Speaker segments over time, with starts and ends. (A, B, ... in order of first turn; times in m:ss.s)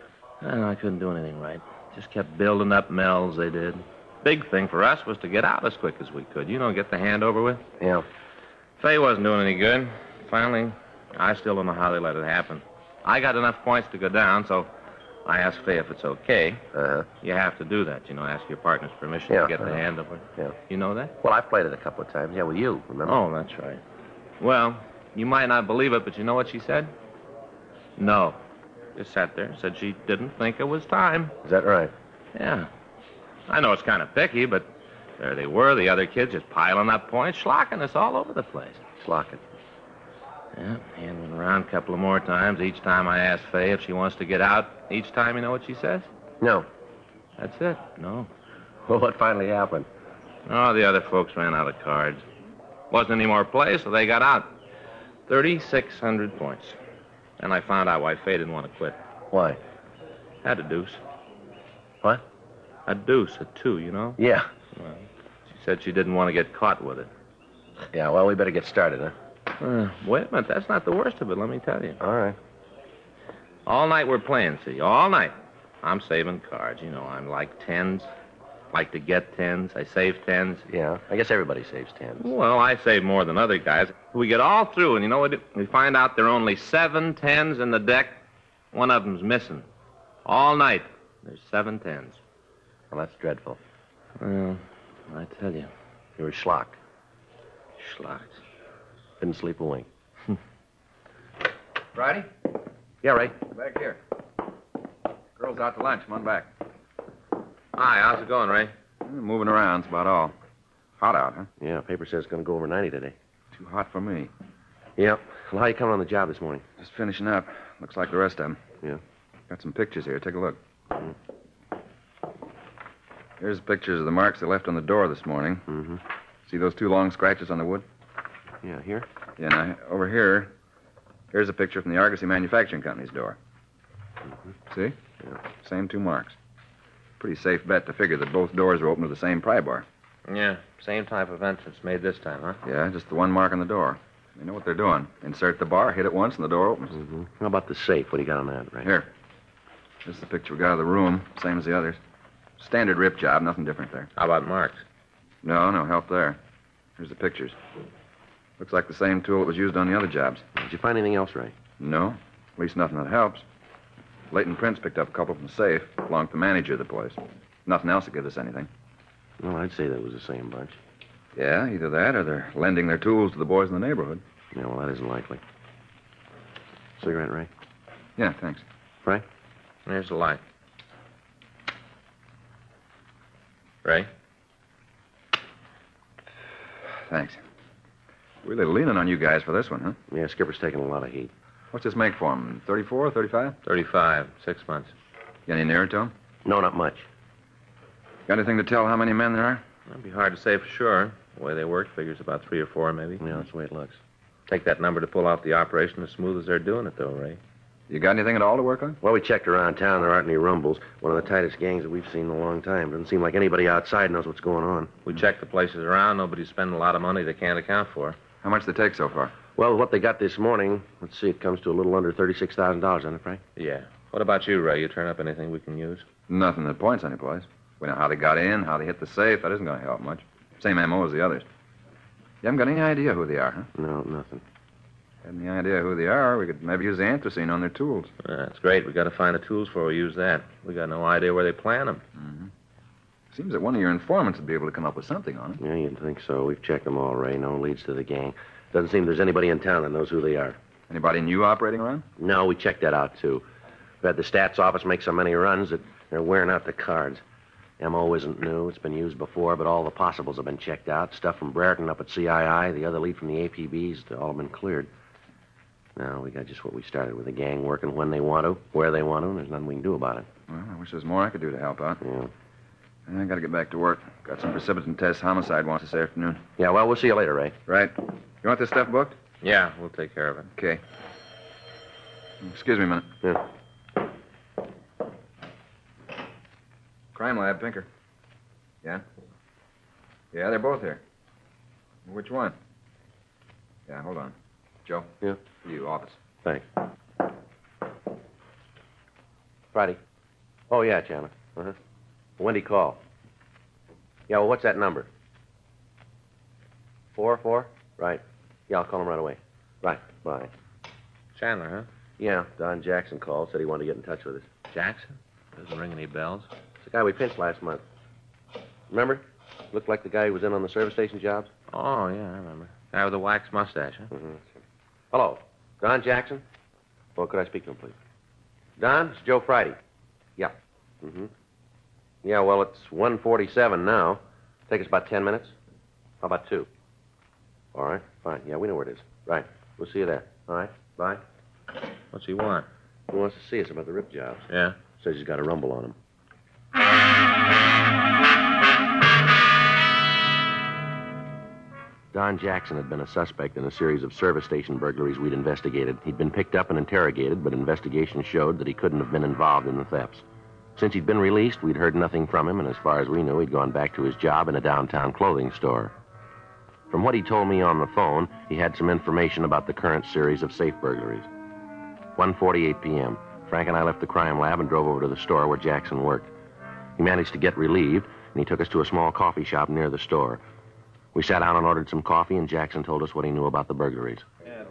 0:00.4-0:07.6 A
0:07.8-0:08.0 B
0:08.8-0:14.7 A
0:15.2-0:16.6 A
0:16.7-0:17.1 B
0:17.2-0:21.1 A
0:19.3-0:19.8 B
0:21.2-0:23.2 B
0:23.0-0:23.8 A
0:24.4-0:26.9 A
0:28.0-0:28.4 A
0:28.9-0:31.4 A
0:31.4-0:31.9 B
0:32.3-0:32.7 A
0:33.5-0:38.9 A
0:39.0-0:39.4 B
0:40.5-0:46.1 A
0:46.4-0:46.7 B
0:47.4-0:48.3 A
0:48.8-0:49.9 B
0:50.4-0:52.2 A
0:52.9-0:54.6 A
0:55.3-0:56.8 A
0:57.4-0:59.0 A
0:59.3-0:59.6 B
1:00.4-1:01.0 A
1:02.8-1:04.2 A
1:04.2-1:04.5 B
1:04.7-1:07.1 A
1:07.9-1:09.1 B
1:09.6-1:12.0 A
1:12.0-1:12.4 B
1:13.6-1:18.1 A
1:18.7-1:20.6 A
1:20.7-1:22.3 B
1:22.2-1:28.2 A
1:28.7-1:29.6 A
1:30.2-1:32.2 A
1:32.9-1:33.6 B
1:34.2-1:35.7 A
1:36.2-1:36.8 B
1:37.8-1:38.4 A
1:39.2-1:39.9 B
1:41.9-1:42.3 C
1:43.0-1:43.4 B
1:43.5-1:44.0 C
1:45.4-1:46.5 C
1:47.7-1:48.7 A
1:49.0-1:50.3 C
1:51.0-1:51.5 C
1:51.6-1:53.1 B
1:53.5-1:54.3 C
1:55.0-1:56.6 B
1:56.8-1:58.6 C
1:59.5-2:00.6 C
2:03.4-2:05.6 C
2:05.7-2:06.0 B
2:06.5-2:07.8 C
2:08.6-2:09.1 B
2:09.4-2:10.5 C
2:11.3-2:13.4 C
2:15.6-2:16.4 C
2:17.2-2:19.8 C
2:20.3-2:22.6 A
2:22.6-2:26.9 C
2:26.9-2:28.9 B
2:30.0-2:32.0 C
2:32.6-2:34.1 C
2:34.2-2:34.8 A
2:35.4-2:36.4 C
2:37.0-2:37.6 C
2:38.6-2:40.4 C
2:40.6-2:41.5 B
2:41.8-2:43.4 C
2:44.3-2:48.7 C
2:49.4-2:50.8 B
2:51.3-2:54.2 C
2:54.5-2:55.4 B
2:57.0-2:57.5 B
2:58.2-2:58.6 C
2:59.8-3:00.4 A
3:03.8-3:04.1 A
3:07.1-3:07.4 C
3:08.4-3:10.0 C
3:10.1-3:11.3 B
3:11.7-3:13.6 C
3:13.6-3:14.9 A
3:15.5-3:16.1 C
3:16.4-3:17.1 B
3:18.3-3:19.6 C
3:19.9-3:23.2 A
3:23.2-3:24.0 B
3:24.5-3:27.4 A
3:27.9-3:29.0 C
3:29.0-3:34.9 B
3:35.1-3:38.2 A
3:38.4-3:39.3 C
3:39.5-3:43.4 B
3:43.6-3:46.0 A
3:46.3-3:51.4 C
3:52.4-3:53.7 C
3:53.7-3:54.4 B
3:55.2-3:58.1 C
3:58.2-4:02.0 A
4:02.1-4:02.5 C
4:03.3-4:05.6 C
4:05.6-4:10.6 B
4:10.9-4:12.0 C
4:12.2-4:13.4 B
4:14.0-4:17.2 B
4:17.8-4:24.9 B
4:26.0-4:30.3 B
4:30.5-4:32.0 C
4:32.0-4:32.3 B
4:33.1-4:36.4 C
4:36.6-4:37.6 B
4:37.7-4:39.2 C
4:39.4-4:40.5 A
4:40.6-4:40.8 C
4:42.4-4:43.1 C
4:47.1-4:47.9 C
4:50.3-4:51.0 C
4:52.0-4:52.6 C
4:53.9-4:54.3 C
4:54.8-4:56.2 C
4:59.7-5:00.0 B
5:00.7-5:01.8 B
5:02.4-5:03.0 B
5:04.3-5:05.1 B
5:07.1-5:10.5 B
5:11.3-5:11.9 A
5:12.2-5:14.5 B
5:14.7-5:16.5 A
5:16.8-5:17.8 B
5:18.9-5:21.5 B
5:21.7-5:24.1 A
5:24.1-5:24.5 B
5:25.1-5:26.4 B
5:27.2-5:28.0 B
5:28.8-5:29.8 B
5:30.4-5:31.3 B
5:32.2-5:35.5 B
5:36.2-5:36.7 B
5:37.7-5:41.2 B
5:42.1-5:42.7 A
5:43.1-5:46.0 B
5:44.5-5:44.8 A
5:52.1-6:00.2 B
6:00.8-6:05.9 B
6:06.9-6:11.3 B
6:12.2-6:16.3 B
6:17.0-6:20.4 B
6:21.1-6:24.2 B